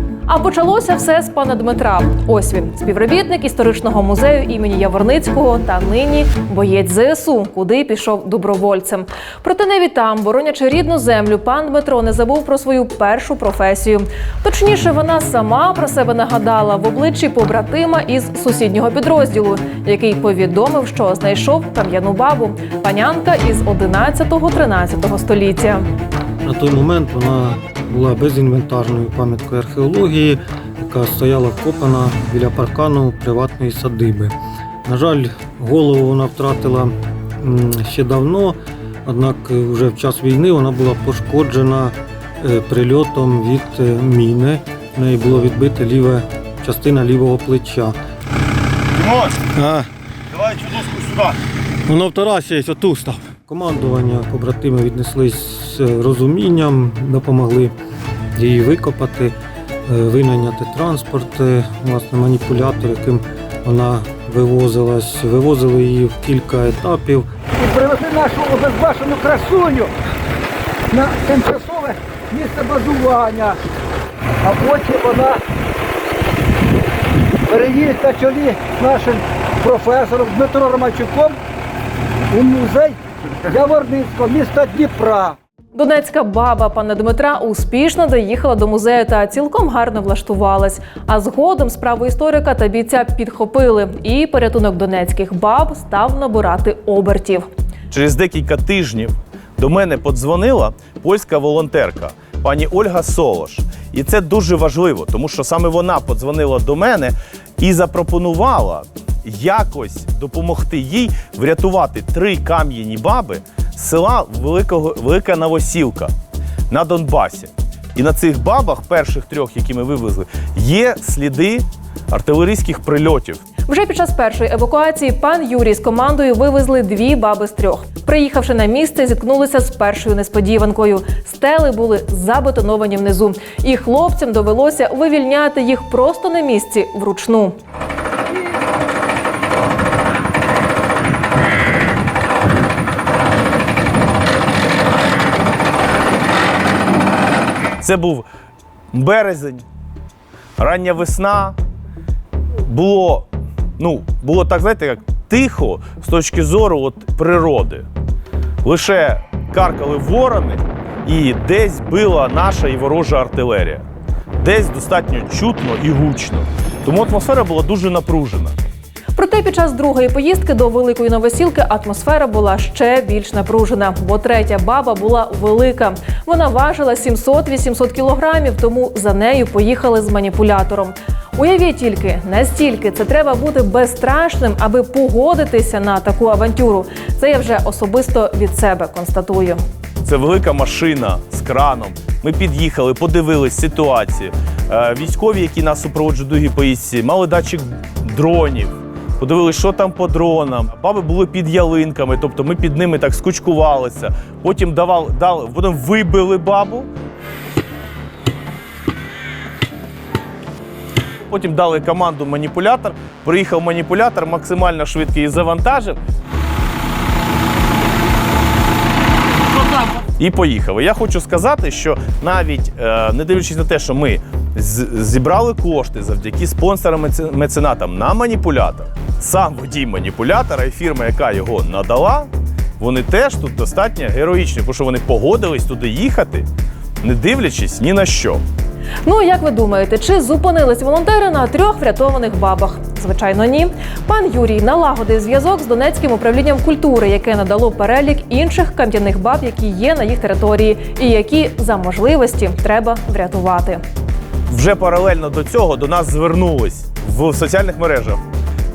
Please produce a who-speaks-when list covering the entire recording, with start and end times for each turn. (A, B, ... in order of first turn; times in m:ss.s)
0:00.3-0:25.8 A
0:26.4-0:34.3 B
0:34.8-0:48.0 B
0:48.9-0:49.5 C
0:49.5-0:49.9 B
0:50.3-0:51.4 C
0:51.8-0:57.7 B
0:58.4-0:59.4 B
0:59.9-1:07.2 B
1:07.6-1:09.9 D
1:10.9-1:13.6 D
1:14.4-1:15.4 D
1:17.5-1:21.4 D
1:22.3-1:25.4 D
1:25.7-1:37.5 A
1:37.9-1:56.1 C
1:56.7-2:03.4 C
2:03.7-2:17.5 A
2:27.8-2:28.2 C
2:28.9-2:29.6 C
2:30.6-2:31.6 C
2:32.6-2:33.3 C
2:33.8-2:37.8 C
2:38.6-2:43.8 C
2:44.4-2:48.5 C
2:49.2-3:09.6 A
3:10.0-3:26.9 C
3:31.2-3:36.0 C
3:39.8-3:56.4 C
3:57.0-3:58.4 C
3:59.0-4:13.8 A
4:14.5-4:18.2 C